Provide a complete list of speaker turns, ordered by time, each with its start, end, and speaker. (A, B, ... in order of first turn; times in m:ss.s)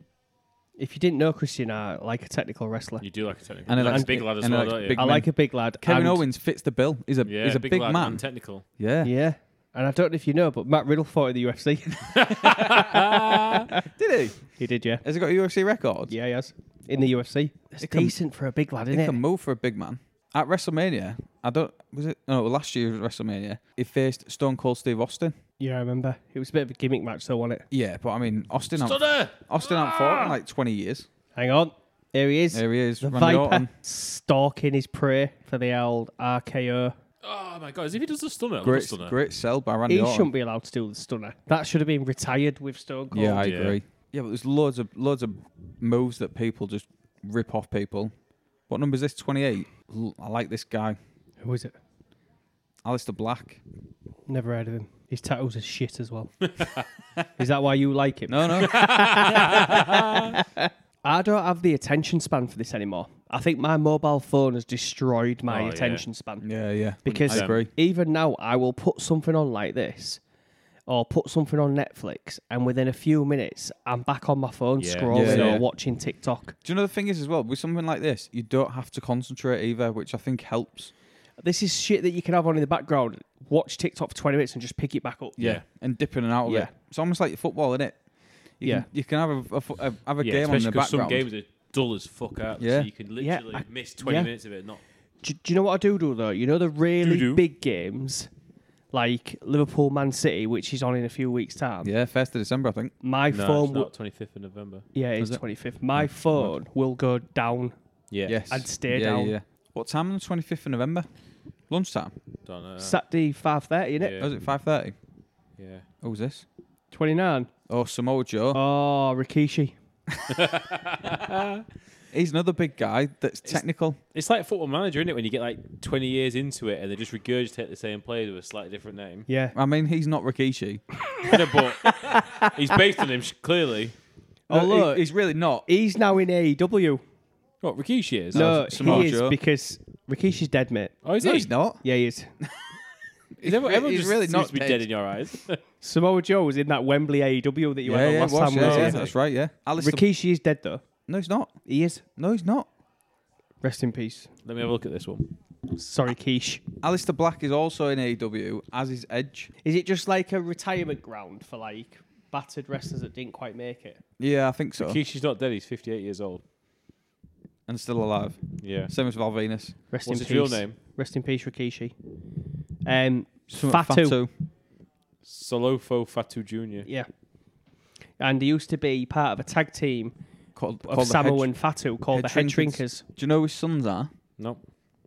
0:00.8-0:03.1 A
0:03.0-0:05.2 B
0:03.7-0:05.3 C
0:03.8-0:04.2 A
0:05.0-0:06.2 A
0:05.8-0:08.2 C
0:07.2-0:08.6 B
0:08.8-0:09.1 C
0:09.0-0:13.9 A
0:12.2-0:13.7 B
0:13.8-0:14.4 C
0:14.6-0:15.0 A
0:15.0-0:16.1 C
0:16.1-0:19.2 A
0:17.8-0:18.2 C
0:18.9-0:25.4 C
0:25.6-0:27.7 A
0:27.7-0:31.1 C
0:28.8-0:30.4 B
0:31.4-0:36.9 A
0:32.5-0:33.7 C
0:37.2-0:39.2 B
0:38.6-0:40.3 C
0:39.9-0:43.4 A
0:43.1-0:48.1 C
0:43.4-0:43.8 B
0:48.7-0:51.0 C
0:51.4-0:51.7 A
0:52.8-0:53.6 C
0:54.3-0:56.7 A
0:56.6-0:56.9 B
0:57.4-1:06.4 A
0:58.3-0:59.0 C
0:58.6-1:00.4 B
1:05.5-1:06.1 B
1:06.4-1:07.7 C
1:07.0-1:10.2 A
1:07.3-1:07.6 B
1:10.9-1:16.6 A
1:14.8-1:15.6 B
1:15.1-1:15.6 C
1:16.6-1:20.9 C
1:21.4-1:25.4 A
1:25.4-1:28.0 C
1:25.4-1:25.6 B
1:26.4-1:26.7 A
1:28.6-1:31.3 C
1:30.2-1:34.8 B
1:32.6-1:32.9 C
1:33.2-1:34.3 A
1:35.2-1:38.3 A
1:37.0-1:37.4 B
1:38.9-1:41.9 A
1:41.8-1:42.9 C
1:43.0-1:43.9 A
1:43.3-1:44.9 B
1:45.0-1:47.7 A
1:45.9-1:46.5 C
1:48.1-1:48.4 B
1:48.3-1:51.1 C
1:48.5-1:49.3 A
1:51.7-1:52.2 C
1:52.4-1:53.0 B
1:52.8-1:54.2 A
1:54.0-1:54.3 B
1:54.2-1:55.0 C
1:55.6-1:55.9 B
1:56.0-1:56.4 C
1:56.9-1:57.5 A
1:57.7-1:58.6 C
1:58.5-1:59.8 A
2:00.3-2:01.6 B
2:02.1-2:04.0 C
2:03.5-2:09.3 B
2:09.3-2:09.6 A
2:09.5-2:10.8 C
2:11.1-2:12.8 A
2:11.2-2:14.0 B
2:14.5-2:15.1 A
2:14.5-2:15.7 C
2:15.7-2:17.0 A
2:17.6-2:19.1 B
2:18.3-2:19.4 C
2:18.3-2:21.0 A
2:21.0-2:21.5 B
2:21.2-2:21.8 C
2:21.8-2:22.3 A
2:23.4-2:24.9 C
2:23.4-2:25.6 B
2:25.8-2:29.0 A
2:27.8-2:30.0 C
2:28.6-2:29.1 B
2:29.8-2:30.8 A
2:31.1-2:31.6 C
2:31.7-2:32.0 A
2:32.2-2:32.7 C
2:33.6-2:34.3 A
2:34.4-2:35.3 B
2:35.7-2:36.6 A
2:36.8-2:39.5 C
2:39.6-2:44.0 A
2:44.2-2:45.0 C
2:44.8-2:46.4 B
2:47.7-2:49.8 C
2:48.6-2:48.9 B
2:49.9-2:51.9 A
2:50.0-2:50.8 B
2:52.8-2:54.2 A
2:53.5-2:54.3 C
2:55.2-2:56.9 B
2:58.2-3:00.1 A
3:00.6-3:01.5 C
3:00.9-3:03.0 A
3:02.1-3:04.1 C